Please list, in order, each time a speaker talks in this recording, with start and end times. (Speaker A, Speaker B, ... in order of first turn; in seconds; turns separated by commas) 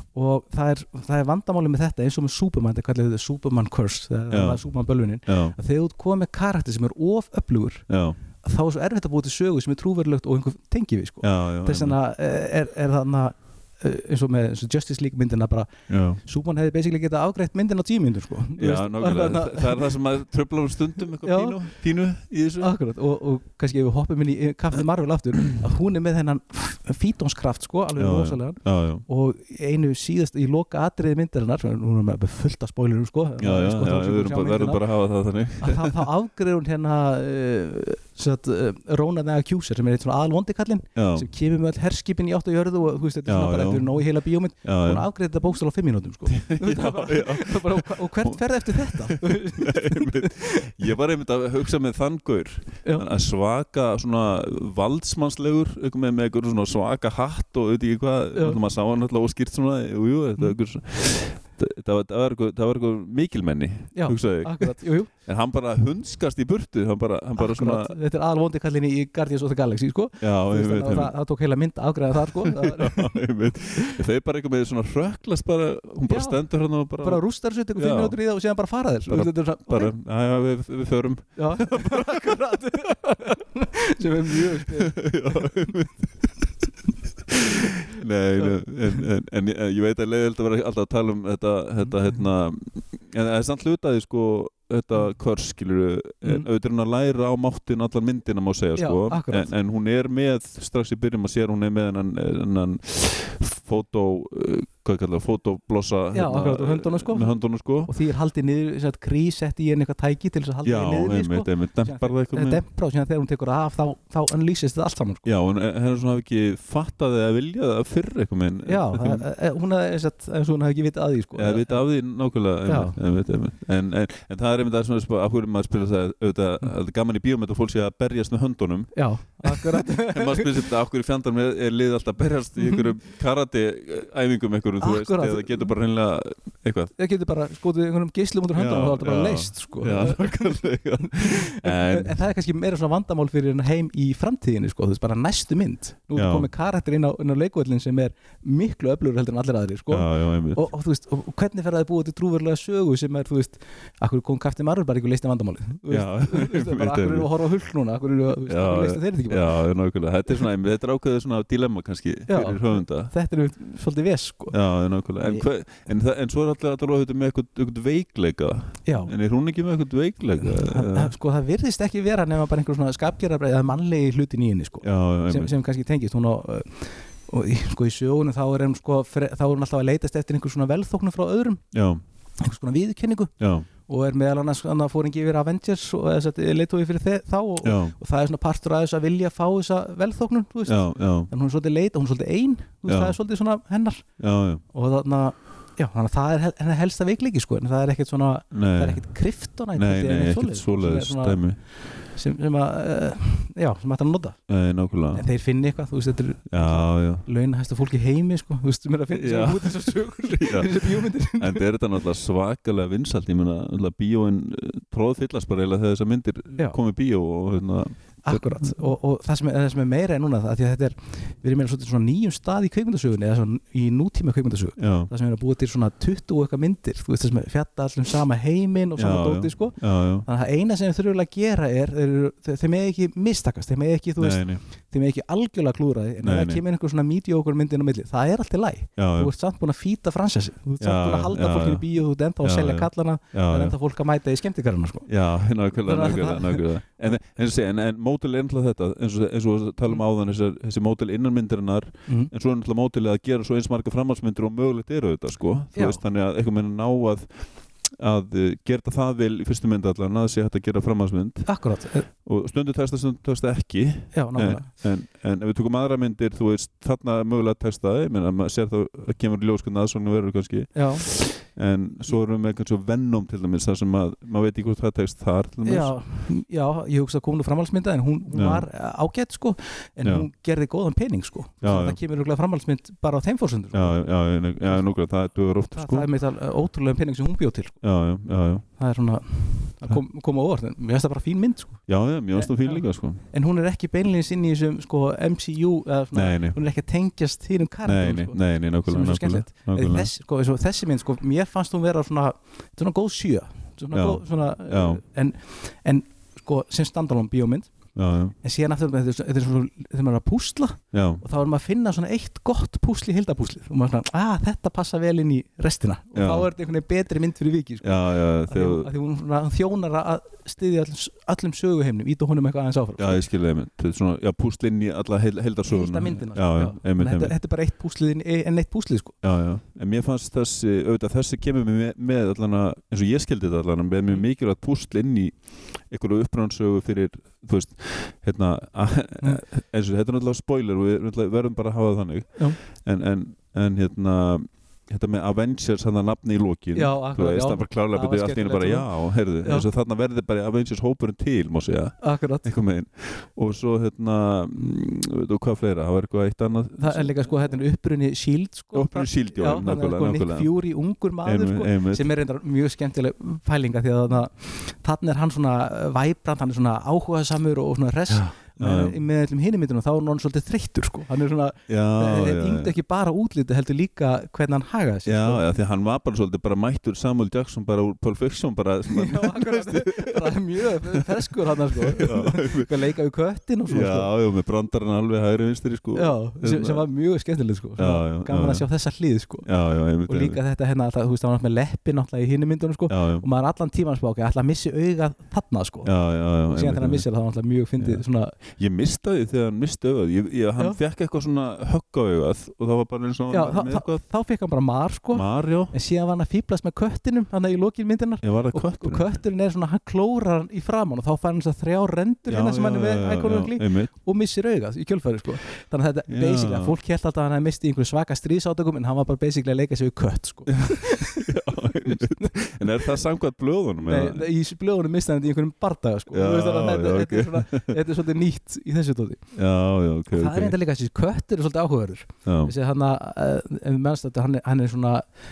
Speaker A: 0.1-7.9, Speaker B: 4.3-4.6, Speaker B: 5.2-5.5, Speaker B: 7.9-8.2, Speaker A: 8.4-19.9, Speaker B: 11.2-11.9, Speaker B: 15.9-16.2, Speaker B: 18.6-22.7, Speaker A: 21.2-21.6, Speaker A: 22.6-34.8, Speaker B: 27.9-29.0, Speaker B: 33.4-36.1, Speaker A: 35.6-50.7, Speaker B: 41.0-41.3, Speaker B: 43.2-43.9, Speaker B: 44.6-45.0, Speaker B: 46.3-67.9, Speaker A: 63.9-65.1, Speaker A: 67.3-74.0, Speaker B: 70.2-71.1, Speaker B: 72.3-78.2, Speaker A: 76.1-76.4, Speaker A: 77.0-79.9, Speaker B: 79.1-82.6, Speaker A: 81.4-85.8, Speaker B: 84.5-86.1, Speaker B: 87.3-107.9, Speaker A: 87.6-88.6, Speaker A: 98.8-99.5, Speaker A: 106.1-107.3, Speaker A: 107.8-115.2, Speaker B: 110.6-112.6, Speaker B: 115.2-119.2, Speaker A: 118.7-121.8, Speaker B: 121.3-136.9, Speaker A: 122.7-123.0, Speaker A: 128.9-130.6, Speaker A: 134.8-135.7, Speaker A: 137.0-159.6, Speaker B: 138.5-142.2, Speaker B: 146.1-146.5, Speaker B: 149.9-150.6, Speaker B: 155.9-157.3, Speaker B: 158.5-163.1, Speaker A: 162.3-164.6, Speaker B: 164.5-171.1, Speaker A: 168.8-169.1, Speaker A: 170.4-181.6, Speaker B: 174.8-175.5, Speaker B: 181.7-182.0, Speaker A: 182.4-183.3, Speaker B: 183.4-183.7, Speaker A: 183.8-194.0, Speaker B: 187.6-187.9, Speaker B: 190.7-191.3, Speaker B: 192.9-193.1, Speaker B: 194.2-194.6, Speaker A: 194.7-201.4, Speaker B: 198.5-199.0, Speaker B: 199.8-201.6, Speaker A: 202.1-204.4, Speaker B: 204.5-205.2, Speaker A: 205.1-211.7, Speaker B: 206.5-207.2, Speaker B: 209.1-218.8, Speaker A: 218.2-245.1, Speaker B: 224.8-225.1, Speaker B: 229.0-230.2, Speaker B: 234.2-234.6, Speaker B: 236.2-236.6, Speaker B: 239.0-239.3, Speaker B: 240.8-241.8, Speaker B: 242.4-243.7, Speaker B: 245.1-257.3, Speaker A: 245.8-246.7, Speaker A: 252.1-252.3, Speaker A: 255.7-256.0, Speaker B: 257.9-261.5, Speaker A: 261.4-262.1, Speaker B: 262.2-275.9, Speaker A: 264.1-264.7, Speaker A: 270.7-271.1, Speaker A: 275.6-284.0, Speaker B: 278.3-278.6, Speaker B: 281.6-282.0, Speaker B: 283.7-286.1, Speaker A: 285.7-287.8, Speaker B: 287.8-288.6, Speaker A: 288.8-307.7, Speaker B: 291.9-293.2, Speaker B: 296.1-296.6, Speaker B: 297.8-300.1, Speaker B: 303.9-305.0, Speaker B: 307.9-308.3, Speaker A: 308.4-323.2, Speaker B: 310.9-311.2, Speaker B: 316.1-316.5, Speaker B: 317.8-318.9, Speaker B: 323.0-327.3, Speaker A: 325.7-329.1, Speaker B: 329.2-357.1, Speaker A: 346.7-349.7, Speaker A: 352.0-352.4, Speaker A: 356.8-375.4, Speaker B: 358.7-360.5, Speaker B: 361.2-362.1, Speaker B: 368.1-369.0, Speaker B: 371.7-372.7, Speaker B: 375.1-382.7, Speaker A: 378.9-384.1, Speaker B: 383.7-386.8, Speaker A: 385.9-389.5, Speaker B: 387.8-388.6, Speaker B: 389.4-390.4, Speaker A: 390.0-395.9, Speaker B: 392.9-393.2, Speaker B: 395.8-397.0, Speaker A: 396.5-398.3, Speaker B: 398.6-404.0, Speaker A: 403.3-423.0, Speaker B: 405.1-405.7, Speaker B: 408.2-409.1, Speaker B: 412.3-413.9, Speaker B: 416.1-416.7, Speaker B: 420.6-424.2, Speaker A: 423.8-429.2, Speaker B: 426.1-427.8, Speaker B: 429.3-430.6, Speaker A: 430.1-435.0, Speaker B: 432.2-432.5